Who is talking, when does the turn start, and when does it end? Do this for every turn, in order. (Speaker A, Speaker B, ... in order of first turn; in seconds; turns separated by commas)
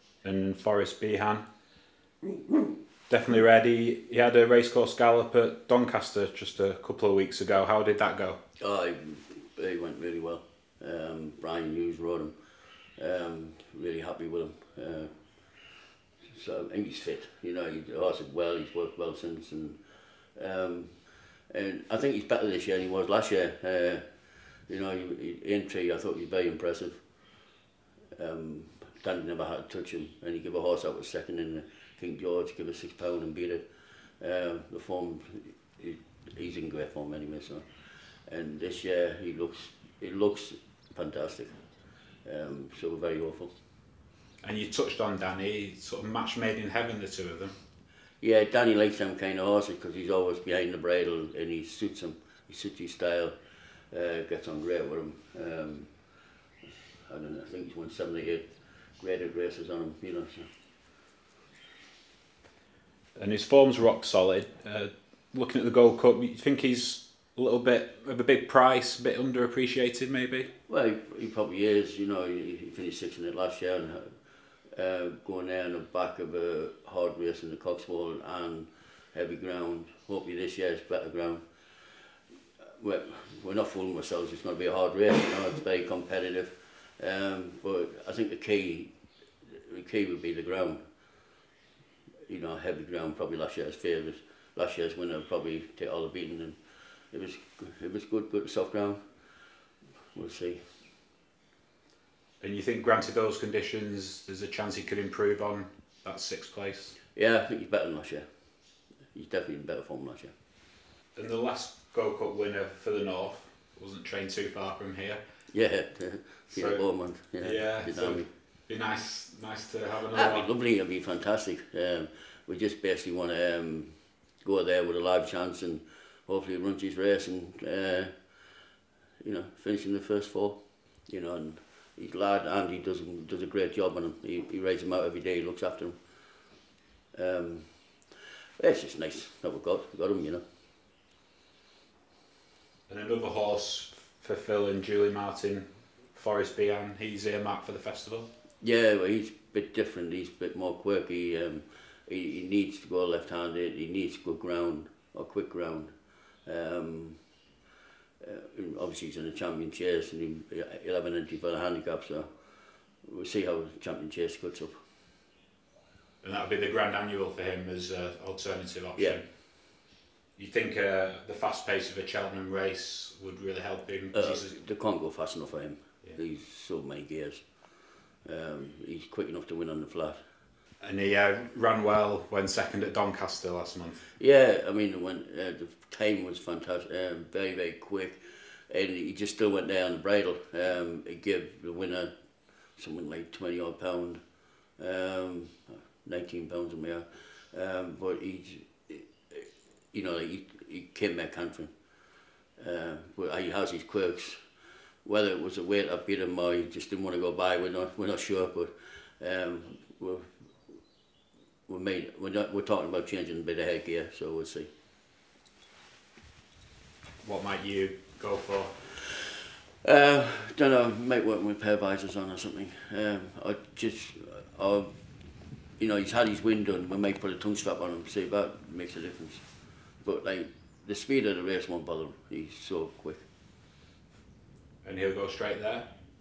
Speaker A: 0.2-1.4, Speaker A: 3.1-8.4, Speaker B: 8.6-12.3, Speaker B: 12.9-15.7, Speaker B: 16.2-19.8, Speaker B: 20.3-24.1, Speaker B: 24.7-27.0, Speaker B: 28.2-33.7, Speaker B: 34.2-37.7, Speaker B: 38.3-41.6, Speaker B: 42.2-43.5, Speaker A: 44.4-47.5, Speaker B: 48.2-53.3, Speaker B: 53.9-56.1, Speaker B: 56.6-60.5, Speaker A: 63.2-70.5, Speaker B: 70.7-74.1, Speaker B: 74.7-88.9, Speaker B: 89.4-90.8, Speaker B: 92.3-99.1, Speaker B: 100.1-100.7, Speaker A: 102.4-107.0, Speaker B: 107.1-108.3, Speaker B: 109.1-110.3, Speaker A: 111.1-115.2, Speaker B: 115.5-118.3, Speaker A: 116.5-120.5, Speaker B: 120.1-128.1, Speaker B: 129.2-136.0, Speaker B: 137.1-140.4, Speaker A: 142.9-148.3, Speaker B: 148.6-155.9, Speaker B: 156.4-157.2, Speaker B: 158.2-162.3, Speaker B: 163.0-164.8, Speaker A: 166.2-169.7, Speaker B: 169.0-169.2, Speaker A: 170.3-174.5, Speaker B: 174.1-180.2, Speaker A: 180.8-184.1, Speaker B: 184.2-192.1, Speaker B: 192.8-194.2, Speaker B: 194.8-201.7, Speaker B: 202.6-204.5, Speaker B: 205.0-210.4, Speaker B: 211.7-214.7, Speaker A: 217.2-218.9, Speaker B: 219.8-224.9, Speaker B: 225.8-229.5, Speaker B: 230.0-233.2, Speaker A: 234.8-235.9